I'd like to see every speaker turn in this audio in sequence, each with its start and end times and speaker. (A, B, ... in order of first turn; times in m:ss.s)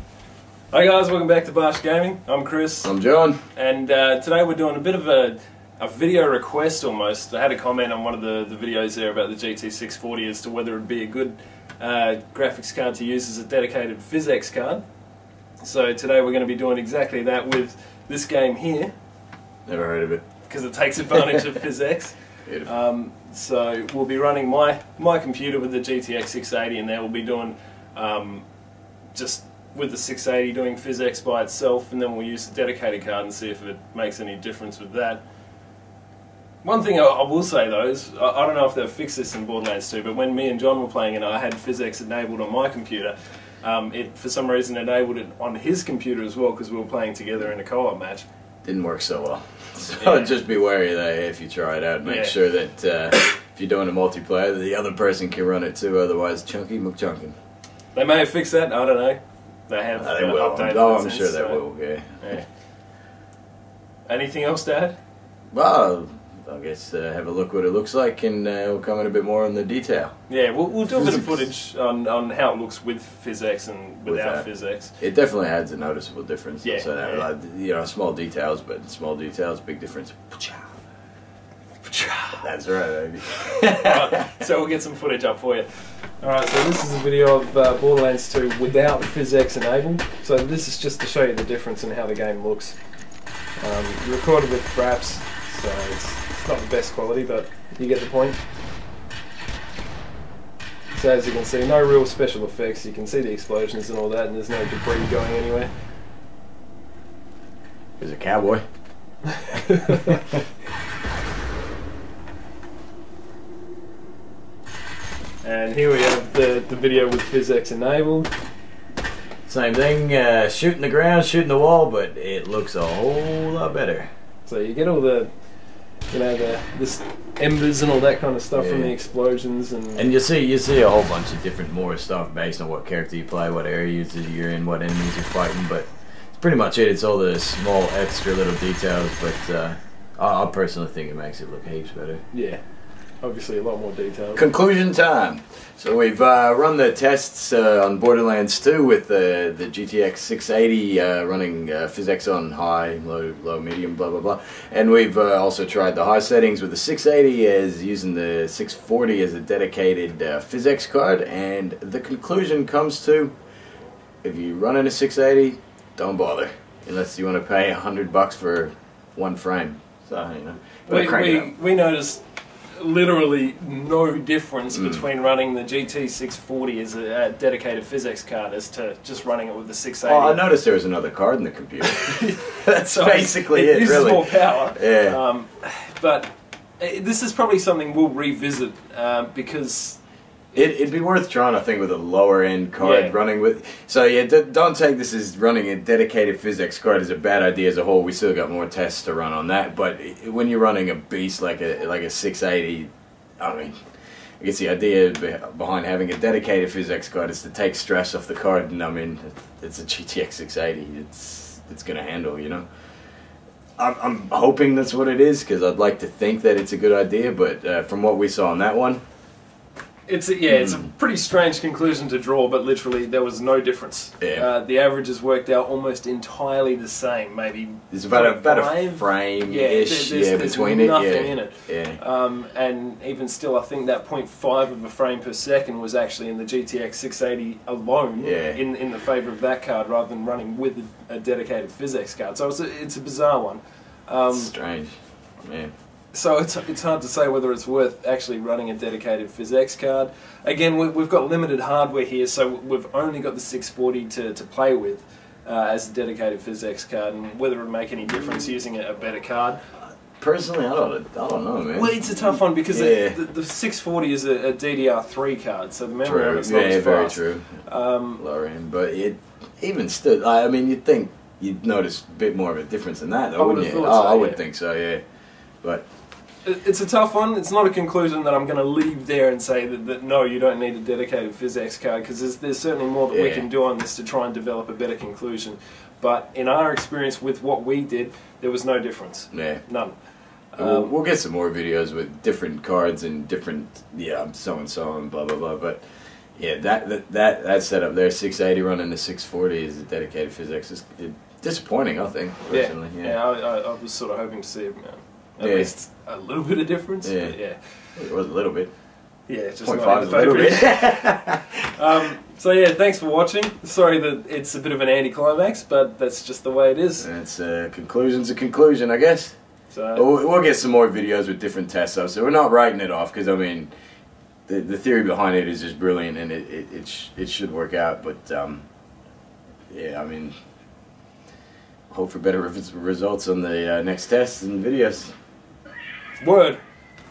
0:00.7-0:02.9 A
0:02.8-0:03.4 B
0:03.5-0:14.8 A
0:15.6-0:18.9 A
0:19.6-0:20.2 B
0:20.4-0:28.5 A
0:29.1-0:35.2 A
0:36.6-0:48.2 A
0:48.6-0:57.3 B
0:50.0-0:50.4 A
0:52.0-0:52.4 A
0:57.9-1:01.6 A
1:00.0-1:02.4 B
1:02.2-1:02.5 A
1:04.0-1:05.0 A
1:05.5-1:10.1 B
1:10.3-1:14.9 A
1:10.9-1:11.4 B
1:14.0-1:20.7 B
1:16.6-1:17.3 A
1:21.8-1:22.5 A
1:22.4-1:24.3 B
1:23.4-1:32.8 A
1:33.6-1:38.4 A
1:40.9-1:45.7 A
1:48.0-1:48.6 B
1:49.3-1:50.2 A
1:55.4-1:58.3 A
1:59.4-2:04.1 B
2:04.4-2:05.3 A
2:06.1-2:10.1 A
2:08.5-2:08.9 B
2:10.0-2:22.2 B
2:22.3-2:22.6 A
2:23.2-2:24.4 A
2:24.3-2:43.3 B
2:44.2-2:51.5 B
2:50.9-3:00.4 A
2:54.7-2:55.0 B
3:00.0-3:05.2 B
3:01.8-3:10.0 A
3:10.5-3:23.7 B
3:12.8-3:13.2 A
3:24.4-3:32.6 B
3:33.8-3:39.0 B
3:40.0-4:04.5 A
3:40.5-3:40.9 B
3:44.2-3:44.5 B
3:47.9-3:52.0 B
3:58.2-3:58.6 B
4:04.3-4:05.7 B
4:06.1-4:19.6 A
4:20.2-4:23.2 B
4:21.7-4:28.2 A
4:26.0-4:35.0 B
4:33.4-4:34.4 A
4:36.4-4:50.0 A
4:43.1-4:43.5 B
4:49.3-4:49.6 B
4:50.5-4:50.9 A
4:50.6-4:55.8 B
4:56.4-5:03.2 B
5:02.5-5:07.6 A
5:05.4-5:05.7 B
5:07.0-5:07.4 B
5:08.0-5:08.7 B
5:09.3-5:17.1 A
5:09.6-5:11.6 B
5:17.0-5:19.3 B
5:19.7-5:20.1 A
5:19.9-5:23.7 B
5:24.5-5:28.6 B
5:29.7-5:30.3 B
5:31.9-5:35.1 B
5:36.2-5:36.6 A